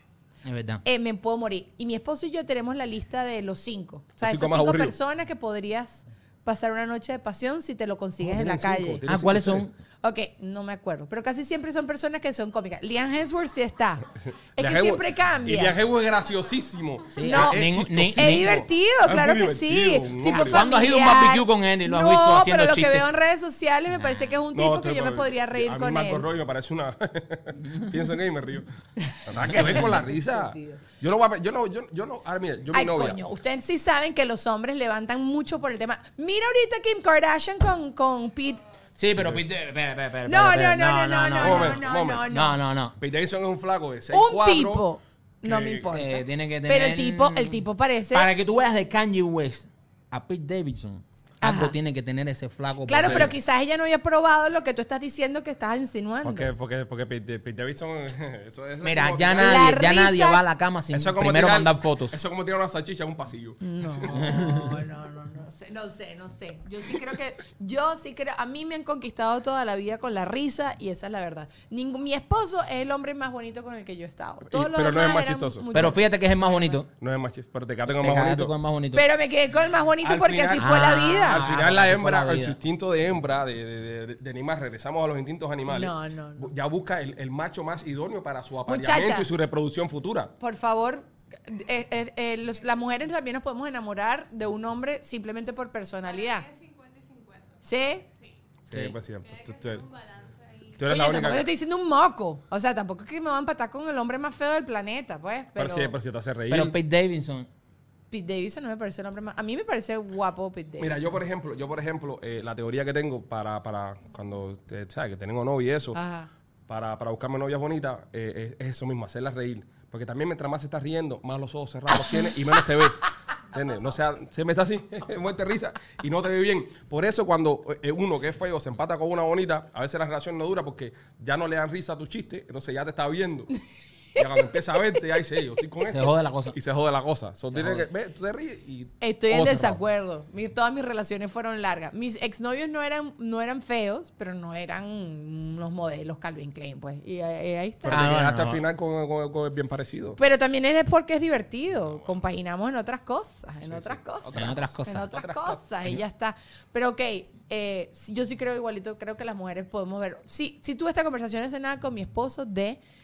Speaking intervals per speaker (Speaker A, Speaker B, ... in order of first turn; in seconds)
Speaker A: 0.4-0.8, 9.1-9.7, 17.1-18.6, 20.3-23.1, 23.9-24.3, 29.5-29.9, 39.0-43.0, 45.9-47.6, 48.1-53.3, 58.8-62.2, 64.1-64.7, 75.7-76.9, 77.9-79.0, 80.6-82.6, 98.7-99.0, 106.5-107.5, 135.8-136.6, 137.5-137.9, 147.9-148.6, 154.3-155.1
Speaker B: 0.8-9.0, 10.0-14.0, 14.6-15.8, 17.2-26.2, 29.1-30.8, 32.7-38.6, 40.3-42.6, 44.1-48.3, 51.4-51.7, 52.9-56.5, 59.4-60.4, 63.6-76.8, 78.9-81.5, 85.7-86.5, 88.7-89.3, 90.4-96.5, 97.6-98.0, 100.8-105.9, 108.1-111.2, 115.9-116.3, 139.0-148.1, 150.2-162.8
Speaker C: 4.2-5.0, 8.2-9.7, 14.6-20.6, 24.5-28.7, 29.2-33.2, 39.1-39.5, 41.4-42.3, 43.0-44.9, 45.4-45.9, 53.0-53.3, 56.2-59.9, 60.9-64.3, 74.5-75.9, 77.0-78.5, 80.0-90.3, 98.7-99.8, 100.7-101.5, 105.5-106.7, 110.8-116.0, 116.7-133.5, 134.2-139.8, 147.8-150.2, 153.6-156.0
Speaker D: 96.0-97.6, 99.2-100.8